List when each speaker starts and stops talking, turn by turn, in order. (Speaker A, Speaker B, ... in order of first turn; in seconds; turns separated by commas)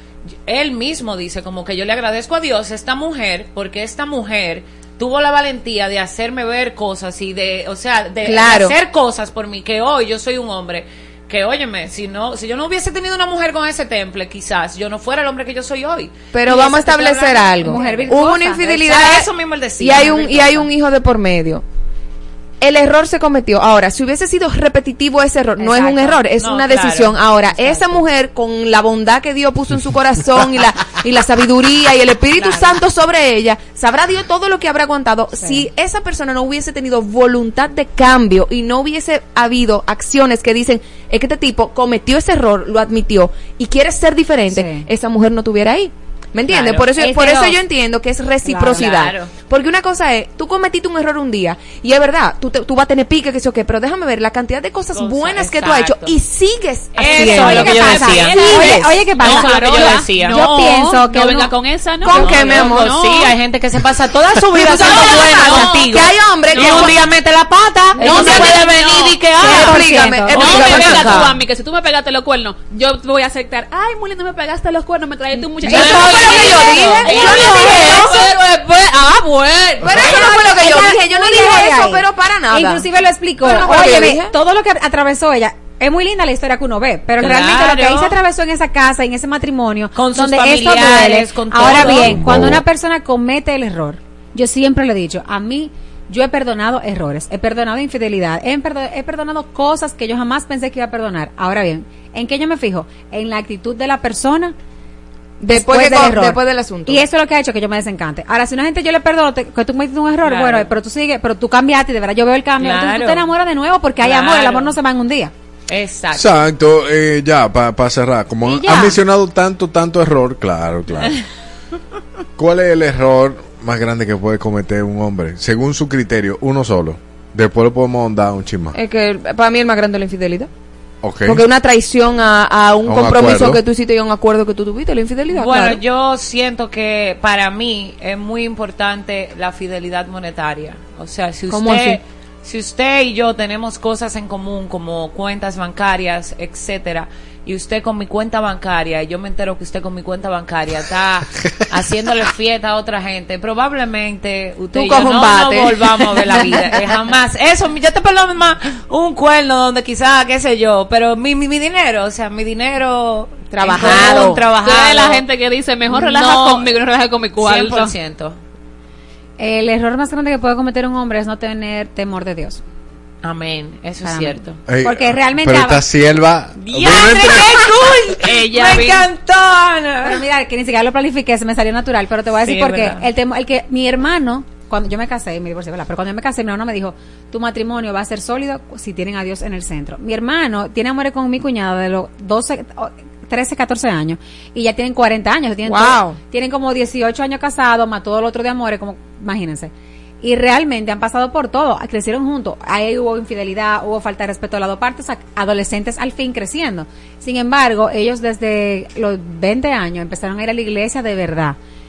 Speaker A: 0.4-20.7, Speaker B: 8.2-8.7, Speaker B: 16.3-21.6, Speaker C: 17.6-18.8, Speaker B: 22.6-58.7, Speaker C: 25.6-26.2, Speaker A: 26.0-28.0, Speaker A: 32.3-32.8, Speaker C: 35.4-35.7, Speaker C: 44.5-44.9, Speaker A: 46.5-47.6, Speaker C: 48.4-48.8, Speaker A: 48.6-49.3, Speaker A: 54.9-56.1, Speaker A: 56.9-60.4, Speaker C: 57.0-61.5, Speaker D: 58.5-63.3, Speaker B: 62.0-62.9, Speaker A: 62.1-69.7, Speaker B: 64.5-66.9, Speaker C: 64.7-65.0, Speaker D: 66.5-66.9, Speaker C: 67.9-68.6, Speaker B: 68.0-68.8, Speaker D: 68.0-69.2, Speaker C: 69.2-71.3, Speaker B: 69.4-71.3, Speaker D: 70.3-80.4, Speaker C: 75.4-77.9, Speaker B: 75.6-78.3, Speaker A: 75.7-78.3, Speaker B: 79.8-82.9, Speaker C: 79.8-104.5, Speaker B: 83.4-84.3, Speaker A: 87.2-88.2, Speaker A: 89.9-92.3, Speaker B: 105.4-107.0, Speaker C: 105.4-115.3, Speaker A: 110.2-110.7, Speaker A: 112.6-113.3, Speaker A: 114.0-114.8, Speaker A: 115.7-116.4, Speaker E: 116.2-121.1, Speaker C: 118.4-119.0, Speaker E: 122.4-128.7, Speaker B: 128.7-130.5, Speaker E: 131.0-131.4, Speaker B: 131.2-135.8, Speaker E: 132.8-133.6, Speaker A: 135.3-165.2, Speaker B: 141.5-142.0, Speaker B: 154.7-156.8, Speaker B: 163.5-164.4, Speaker D: 164.6-167.9, Speaker A: 165.9-166.7, Speaker A: 167.3-168.4, Speaker C: 169.4-172.6, Speaker A: 173.2-174.6, Speaker C: 174.0-175.8, Speaker E: 174.7-177.5, Speaker A: 176.6-179.2, Speaker B: 176.9-179.8, Speaker D: 178.3-179.0, Speaker C: 180.0-211.6, Speaker A: 182.4-183.1, Speaker B: 195.6-196.2